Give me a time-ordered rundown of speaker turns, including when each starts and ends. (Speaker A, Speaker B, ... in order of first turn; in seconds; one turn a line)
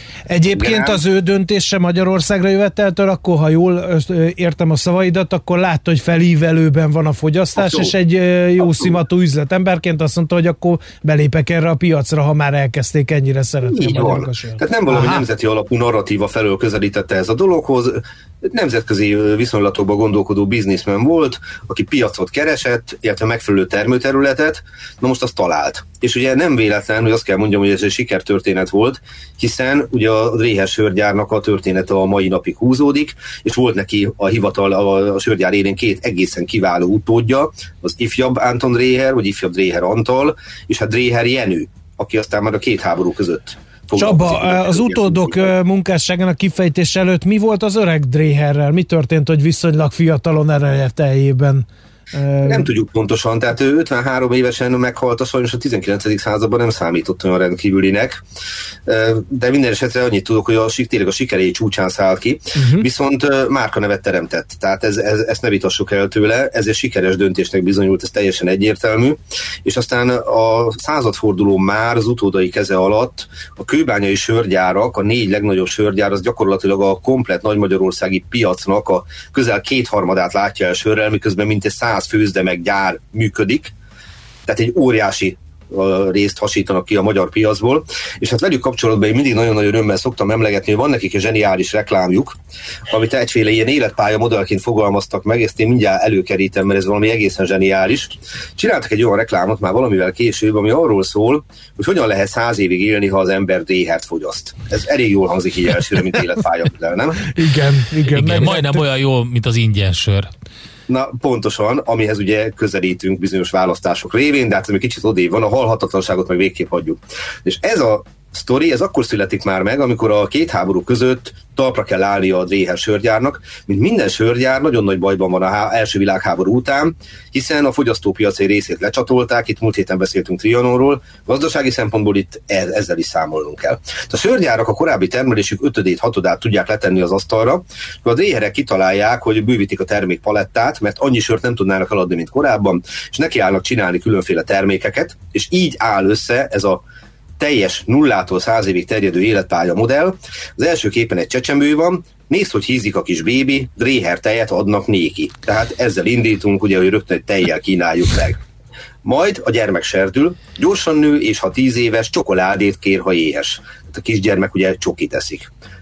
Speaker A: 0.3-15.2
Speaker B: 0.5-1.0
Speaker B: 7.5-7.9
Speaker B: 8.6-9.0
Speaker B: 13.7-45.5
Speaker A: 44.0-52.7
Speaker B: 52.4-58.2
Speaker B: 58.9-83.7
Speaker A: 62.5-62.9
Speaker B: 84.5-92.4
Speaker B: 92.9-107.3
Speaker A: 107.3-108.8
Speaker C: 108.1-110.3
Speaker B: 110.9-146.8
Speaker B: 147.4-158.4
Speaker B: 159.0-165.5